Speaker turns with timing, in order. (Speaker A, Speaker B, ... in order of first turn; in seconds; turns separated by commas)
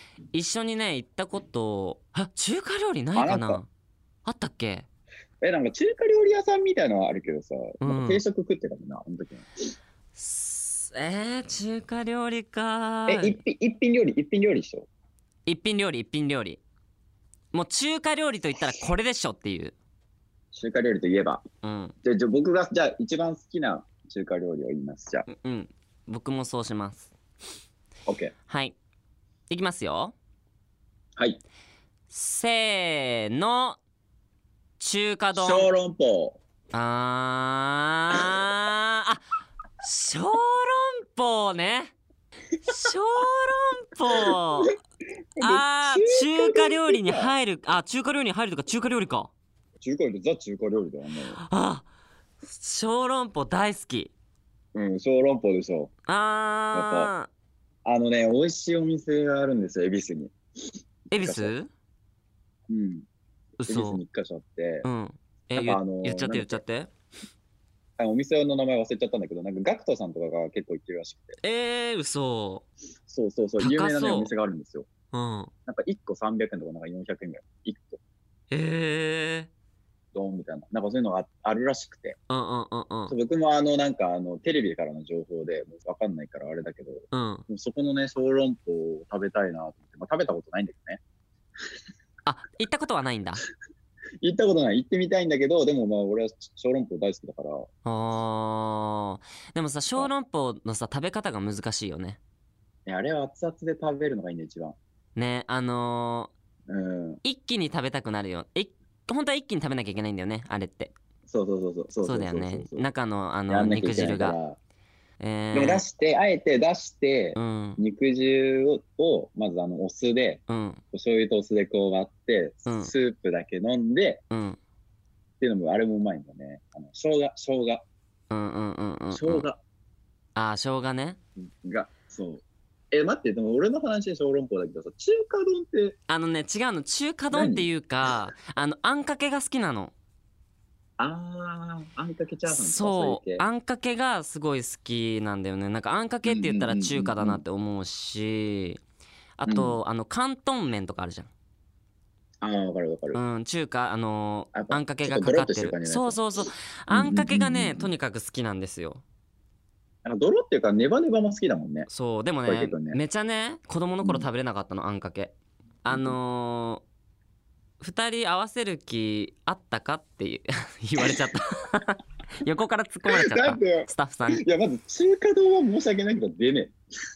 Speaker A: 0.3-3.7, Speaker B: 3.1-3.6, Speaker A: 4.2-4.8, Speaker B: 5.4-9.7, Speaker A: 7.8-8.2, Speaker A: 10.2-13.4, Speaker B: 13.1-14.9, Speaker A: 15.4-16.6, Speaker A: 17.5-19.7, Speaker B: 20.5-21.4, Speaker A: 21.6-21.9, Speaker B: 22.0-25.2, Speaker A: 25.3-27.1, Speaker B: 28.1-28.3, Speaker A: 28.5-28.8, Speaker A: 29.5-30.1, Speaker A: 32.1-33.8, Speaker A: 34.8-35.7, Speaker B: 35.3-36.4, Speaker A: 36.7-39.2, Speaker A: 39.8-41.9, Speaker A: 42.6-44.7, Speaker B: 45.4-47.3, Speaker A: 45.4-49.3, Speaker B: 49.8-51.4, Speaker A: 51.4-51.9, Speaker A: 52.4-54.1, Speaker B: 54.7-55.9, Speaker A: 56.1-57.3, Speaker B: 56.7-57.1, Speaker B: 57.8-60.4, Speaker A: 61.1-61.7, Speaker B: 61.2-61.5, Speaker B: 62.7-63.0, Speaker A: 63.6-64.0, Speaker B: 63.7-64.9, Speaker A: 64.8-66.9, Speaker B: 65.5-66.6, Speaker B: 68.0-71.4, Speaker A: 71.4-72.6, Speaker B: 73.1-74.9, Speaker A: 73.6-74.3, Speaker A: 75.1-75.5, Speaker B: 75.7-78.0, Speaker A: 78.5-79.5, Speaker B: 80.1-82.2, Speaker A: 82.3-83.1, Speaker B: 83.1-91.0, Speaker A: 87.1-87.4, Speaker A: 92.2-93.4, Speaker B: 94.2-97.7, Speaker A: 97.8-102.2, Speaker B: 102.8-104.8, Speaker A: 105.2-106.3, Speaker B: 106.7-107.2, Speaker A: 107.2-110.9, Speaker B: 111.3-112.9, Speaker A: 112.0-114.4, Speaker B: 113.5-114.6, Speaker A: 115.2-115.8, Speaker B: 115.5-124.2, Speaker A: 117.3-117.8, Speaker A: 120.5-120.8, Speaker A: 122.7-122.9, Speaker A: 124.3-124.6, Speaker B: 125.4-127.8, Speaker A: 128.3-129.4, Speaker B: 129.1-129.6, Speaker A: 130.3-131.2, Speaker B: 131.4-136.0, Speaker A: 136.1-139.9, Speaker B: 137.3-137.7, Speaker B: 141.0-143.4, Speaker A: 142.5-148.8, Speaker B: 146.2-147.4, Speaker A: 149.4-151.3, Speaker B: 149.5-149.8, Speaker B: 152.4-153.2, Speaker A: 153.1-159.0, Speaker B: 154.5-156.2, Speaker B: 156.9-157.9, Speaker B: 160.0-161.9, Speaker A: 161.9-165.3, Speaker B: 162.4-163.0, Speaker A: 165.8-166.8, Speaker B: 165.9-166.2, Speaker A: 167.8-174.4, Speaker B: 173.1-176.7